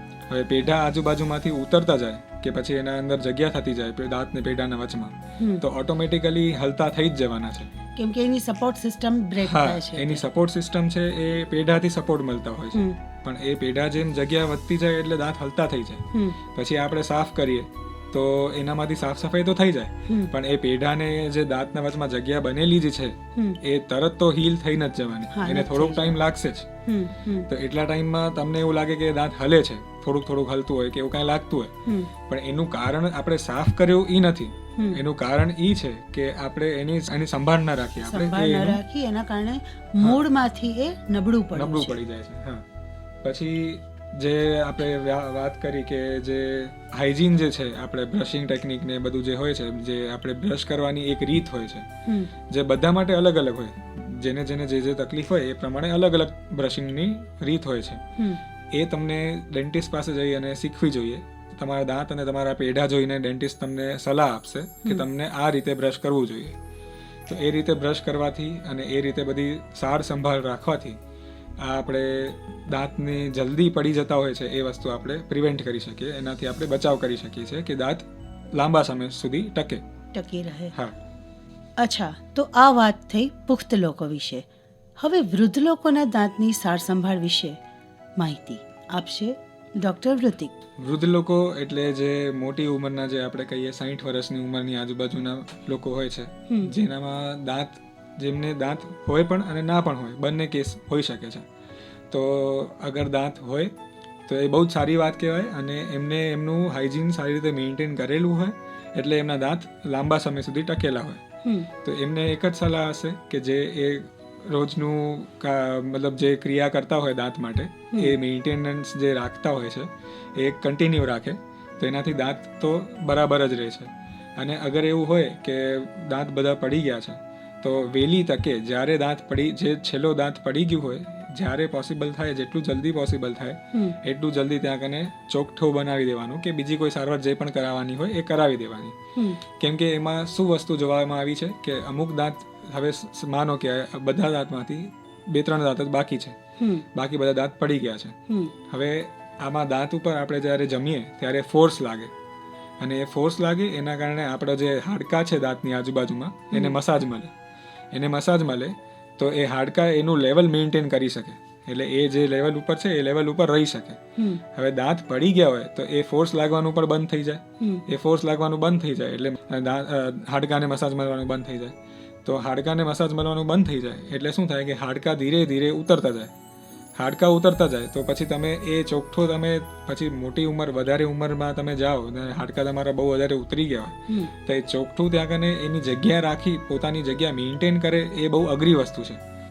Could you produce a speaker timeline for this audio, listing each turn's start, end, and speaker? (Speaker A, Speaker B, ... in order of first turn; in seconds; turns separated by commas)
Speaker A: 0.3-7.7, Speaker B: 8.0-10.2, Speaker A: 9.4-26.7, Speaker B: 16.1-16.4, Speaker B: 20.1-20.3, Speaker B: 25.3-26.2, Speaker B: 26.9-27.5, Speaker A: 27.5-31.7, Speaker B: 31.9-32.1, Speaker A: 32.3-38.8, Speaker B: 38.0-42.0, Speaker A: 41.5-42.6, Speaker A: 43.2-51.9, Speaker B: 52.1-52.3, Speaker A: 52.5-58.0, Speaker A: 58.7-66.5, Speaker A: 67.3-71.0, Speaker A: 71.6-79.8, Speaker B: 80.1-80.7, Speaker B: 81.8-84.5, Speaker B: 85.0-87.6, Speaker B: 88.2-90.5, Speaker A: 90.8-101.4, Speaker A: 102.1-103.7, Speaker A: 104.3-111.2, Speaker A: 111.8-138.9, Speaker B: 139.2-139.4, Speaker A: 139.5-146.3, Speaker B: 146.6-146.8, Speaker A: 146.9-148.1, Speaker B: 148.3-148.5, Speaker A: 148.7-152.1, Speaker A: 152.8-157.3, Speaker A: 157.9-164.0, Speaker B: 164.2-164.4, Speaker A: 164.5-176.3, Speaker A: 177.0-189.2